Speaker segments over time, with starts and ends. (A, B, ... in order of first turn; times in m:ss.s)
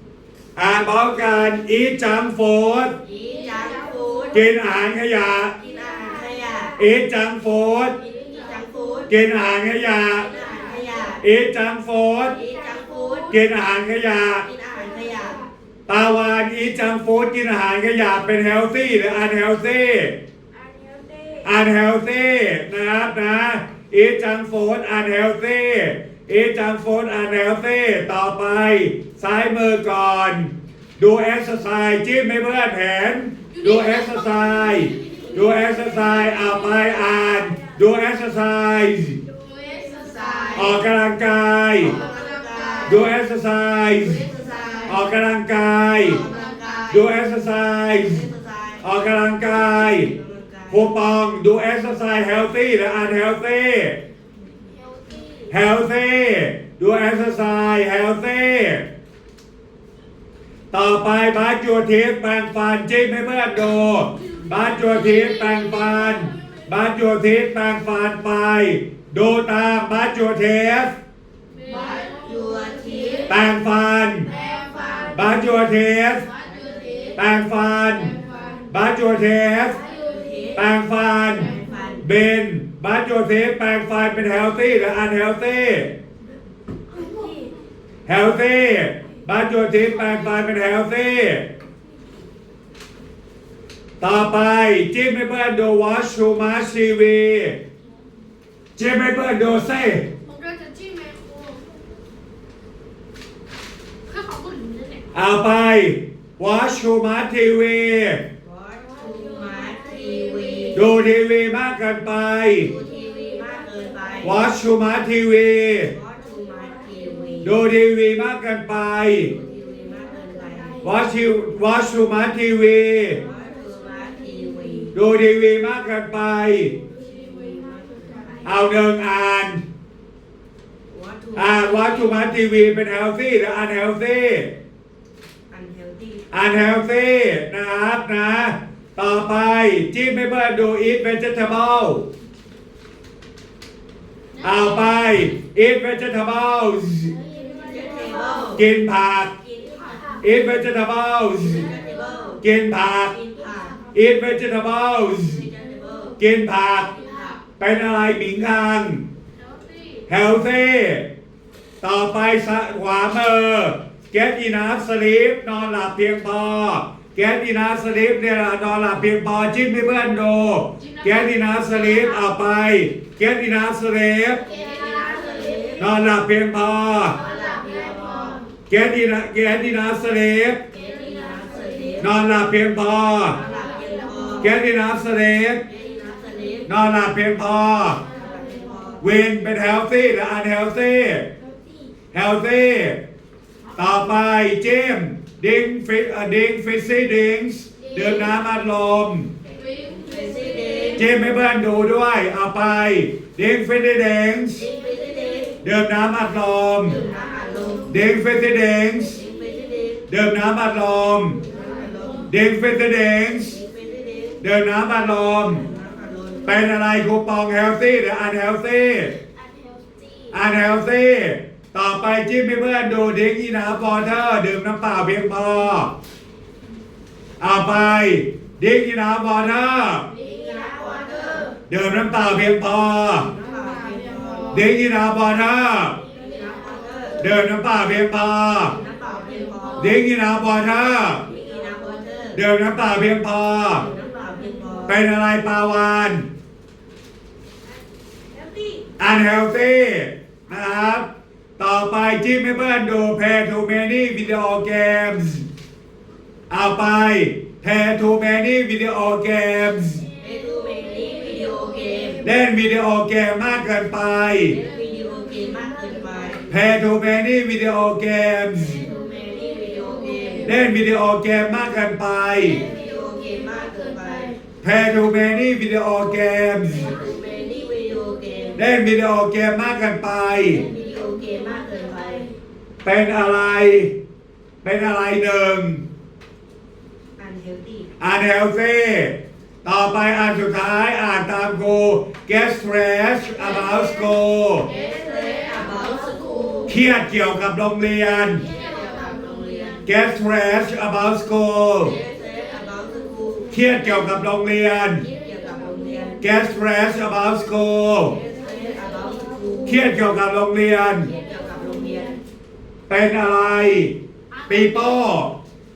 0:00.5-0:02.9 A
0:03.0-0:04.4 B
0:04.3-0:05.5 A
0:05.6-0:06.8 B
0:06.7-0:07.9 A
0:08.0-0:09.1 B
0:09.1-0:10.3 A
0:10.2-0:11.2 B
0:11.2-0:12.4 A
0:12.3-0:13.4 B
0:13.3-0:14.5 A
0:14.4-0:15.4 B
0:15.9-0:20.2 A
0:21.4-0:39.2 A
0:33.5-0:36.9 C
0:39.3-0:40.7 C
0:40.0-0:40.7 B
0:40.5-0:42.0 A
0:41.8-0:43.0 B
0:41.8-0:43.0 C
0:42.8-0:44.2 A
0:44.2-0:45.0 B
0:44.9-0:46.2 A
0:46.0-0:46.7 C
0:46.1-0:47.0 B
0:46.9-0:48.3 A
0:48.1-0:48.9 B
0:48.8-0:50.1 A
0:49.6-0:50.9 B
0:50.7-0:54.0 A
0:55.5-0:58.9 A
1:00.7-1:11.0 A
1:04.2-1:06.6 C
1:11.5-1:13.2 C
1:11.7-1:13.4 B
1:13.3-1:14.3 A
1:14.2-1:15.3 C
1:14.3-1:15.1 B
1:15.1-1:16.3 A
1:16.2-1:17.2 C
1:16.6-1:17.1 B
1:17.1-1:18.2 A
1:18.1-1:18.6 C
1:18.7-1:19.8 A
1:19.8-1:20.2 C
1:19.9-1:20.6 B
1:20.5-1:26.0 A
1:21.4-1:22.0 B
1:27.0-1:27.4 C
1:28.0-1:31.5 A
1:34.0-1:37.6 A
1:38.8-1:40.0 A
1:40.2-1:41.7 C
1:44.1-1:45.0 C
1:45.1-1:48.2 A
1:48.4-1:50.8 B
1:50.7-1:52.7 A
1:52.6-1:54.4 B
1:54.2-1:55.9 A
1:55.9-1:57.5 B
1:57.4-1:59.3 A
1:59.3-2:00.8 B
2:00.8-2:03.2 A
2:03.2-2:04.9 B
2:04.9-2:06.8 A
2:07.0-2:08.5 B
2:08.4-2:09.6 A
2:10.9-2:11.8 B
2:11.3-2:14.5 A
2:15.5-2:16.3 B
2:16.3-2:22.1 A
2:24.4-2:25.2 C
2:24.4-2:27.2 A
2:27.4-2:28.6 B
2:28.5-2:29.3 A
2:29.5-2:30.2 B
2:30.2-2:31.7 A
2:31.5-2:32.4 B
2:32.4-2:33.2 A
2:33.1-2:33.8 B
2:33.9-2:35.4 A
2:35.2-2:36.2 B
2:36.2-2:36.9 A
2:37.0-2:37.4 B
2:37.6-2:39.0 A
2:39.4-2:40.0 C
2:40.1-2:41.1 A
2:41.8-2:54.4 A
2:50.8-2:52.2 C
2:54.5-2:55.8 B
2:54.5-2:55.6 C
2:55.8-2:57.2 A
2:57.1-2:58.4 B
2:57.2-2:58.4 C
2:58.7-3:00.6 A
3:00.7-3:02.1 B
3:02.0-3:03.4 A
3:03.4-3:04.0 C
3:03.4-3:04.5 B
3:04.4-3:05.6 A
3:05.7-3:06.7 B
3:06.6-3:08.0 A
3:08.1-3:09.0 B
3:09.0-3:11.3 A
3:12.1-3:13.0 A
3:13.8-3:19.3 A
3:19.6-3:21.0 C
3:20.0-3:21.0 B
3:20.9-3:24.6 A
3:24.6-3:25.6 B
3:25.6-3:27.0 A
3:26.9-3:27.9 B
3:27.9-3:29.2 A
3:29.1-3:30.0 B
3:30.1-3:31.4 A
3:31.5-3:32.3 B
3:32.3-3:33.6 A
3:33.5-3:34.4 B
3:34.4-3:35.6 A
3:35.7-3:36.5 B
3:36.4-3:39.2 A
3:40.3-3:45.9 A
3:47.4-3:50.1 A
3:50.2-3:51.5 B
3:51.7-3:53.3 A
3:53.1-3:54.6 B
3:53.7-3:54.5 C
3:54.5-3:56.0 A
3:56.2-3:57.3 B
3:57.2-3:58.8 A
3:58.7-3:59.9 B
3:59.8-4:01.2 A
4:01.2-4:02.4 B
4:02.3-4:03.9 A
4:03.8-4:04.9 B
4:04.9-4:06.3 A
4:09.0-4:11.1 A
4:11.6-4:15.5 A
4:16.5-4:20.1 A
4:20.2-4:22.2 B
4:22.2-4:24.6 A
4:24.5-4:26.5 B
4:26.5-4:28.8 A
4:28.7-4:30.5 B
4:30.4-4:32.6 A
4:32.6-4:34.4 B
4:33.9-4:34.2 C
4:34.6-4:37.0 A
4:36.8-4:38.6 B
4:38.6-4:40.6 A
4:40.6-4:42.3 B
4:42.8-4:43.9 A
4:44.6-4:45.8 A
4:47.2-4:47.9 B
4:48.0-4:54.7 A
4:53.5-4:54.1 C
4:54.6-4:56.6 C
4:54.7-4:56.7 B
4:56.7-4:58.4 A
4:58.5-4:59.7 C
4:58.5-4:59.8 B
4:59.8-5:02.0 A
5:01.8-5:03.6 B
5:03.5-5:05.0 A
5:05.0-5:06.2 B
5:06.2-5:08.2 A
5:08.1-5:09.8 B
5:09.6-5:11.1 A
5:11.1-5:12.2 B
5:12.9-5:15.4 A
5:14.3-5:15.0 C